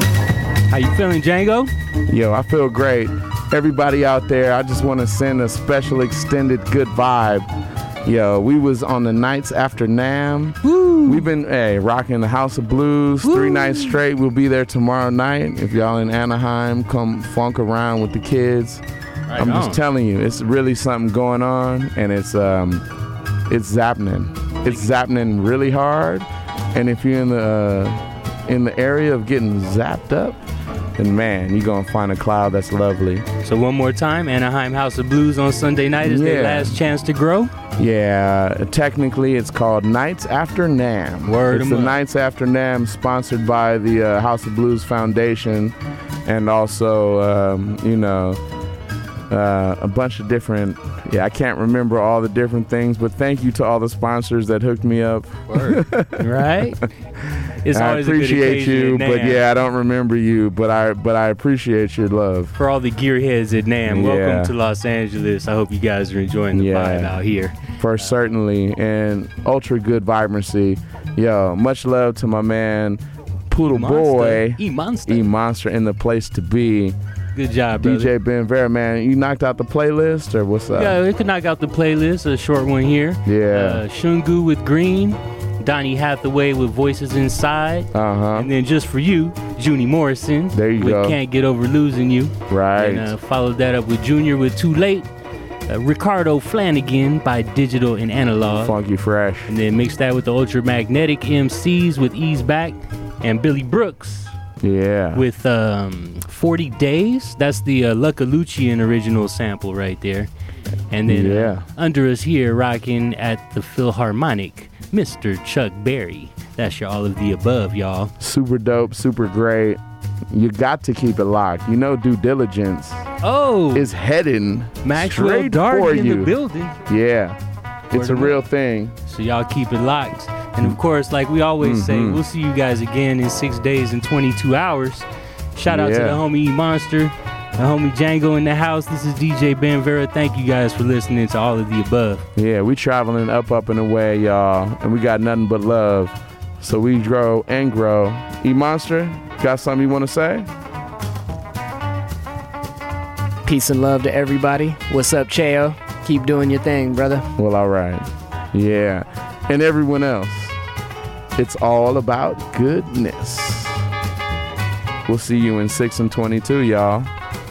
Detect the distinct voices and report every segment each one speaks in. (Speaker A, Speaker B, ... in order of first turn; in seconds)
Speaker A: 0.7-1.7, 10.6-11.3, 13.2-14.0, 19.3-19.8, 24.6-24.9, 33.4-37.5, 41.2-42.0, 55.5-56.8, 57.6-59.5, 62.5-68.1, 73.5-75.3, 77.3-78.1, 80.7-95.1, 95.7-98.7, 99.5-104.3, 105.1-110.3, 110.9-118.1, 123.2-123.9, 124.8-126.8, 127.9-128.4, 129.1-142.2
Speaker B: 2.1-7.5, 8.1-18.8, 19.4-22.8, 23.5-27.9, 28.5-30.4, 31.0-33.2, 36.0-36.7, 37.8-45.7, 46.2-48.4, 49.3-56.7, 57.7-62.5, 63.9-64.5, 66.5-67.2, 67.8-76.9, 77.8-81.0, 83.2-83.8, 87.9-88.5, 90.5-91.2, 92.5-93.1, 98.5-99.5, 104.6-105.2, 111.1-111.6, 118.2-119.8, 120.3-123.0, 123.7-126.3, 126.9-127.4, 127.9-128.9, 131.6-132.2, 135.7-136.2, 142.4-150.5, 157.4-160.5, 161.3-163.8, 165.1-167.1
Speaker C: 153.4-157.2